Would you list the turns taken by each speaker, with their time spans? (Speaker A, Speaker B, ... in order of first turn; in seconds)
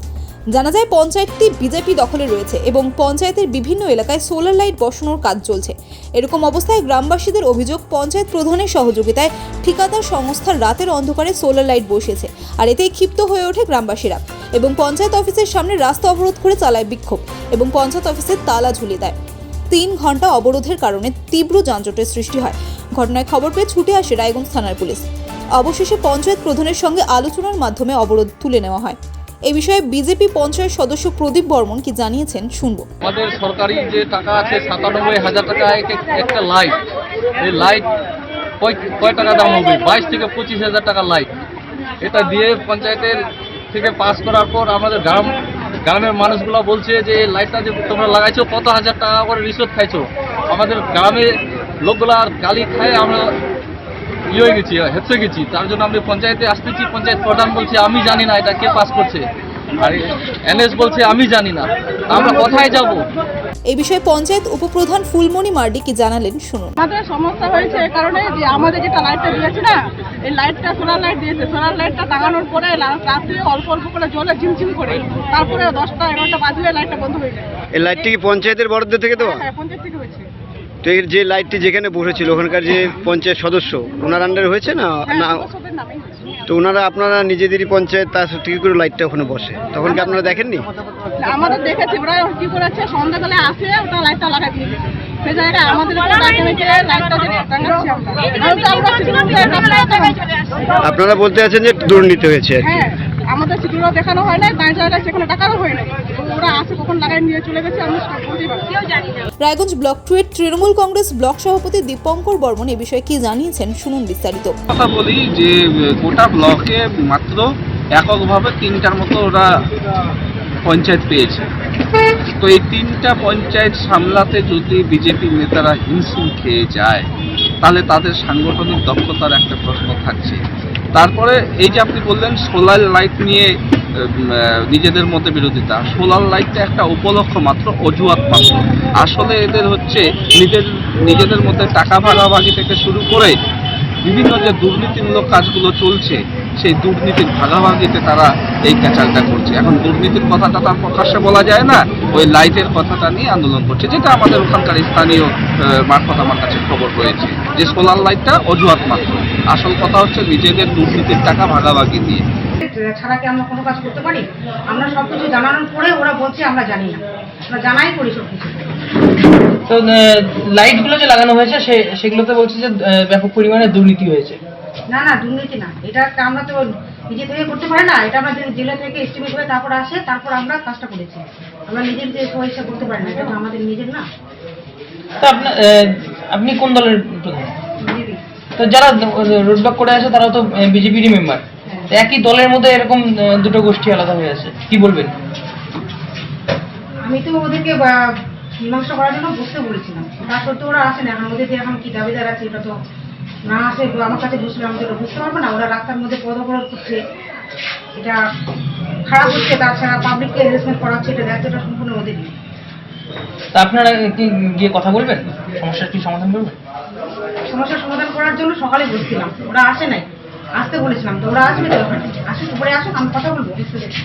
Speaker A: 0.5-19.2, 19.7-25.1, 25.6-32.9, 63.7-66.8, 109.4-114.5
Speaker B: 33.0-36.8, 37.4-37.9, 38.6-41.3, 42.0-43.1, 43.7-53.3, 54.3-63.1
Speaker C: 66.8-77.5, 79.2-80.3, 85.1-86.4, 91.2-100.2, 102.7-108.8
Speaker D: 77.7-79.5, 80.8-85.5, 86.5-90.7, 100.8-102.7
Speaker E: 114.7-119.5, 120.7-121.5, 122.4-127.1, 127.6-130.4, 130.9-143.3, 144.0-162.2
Speaker F: 162.6-168.6, 174.9-184.1, 187.8-188.2, 197.0-197.9, 198.6-202.7, 203.5-207.0, 209.1-212.3, 217.5-223.9
Speaker G: 169.7-174.4, 185.2-187.5, 188.6-195.1, 213.5-216.6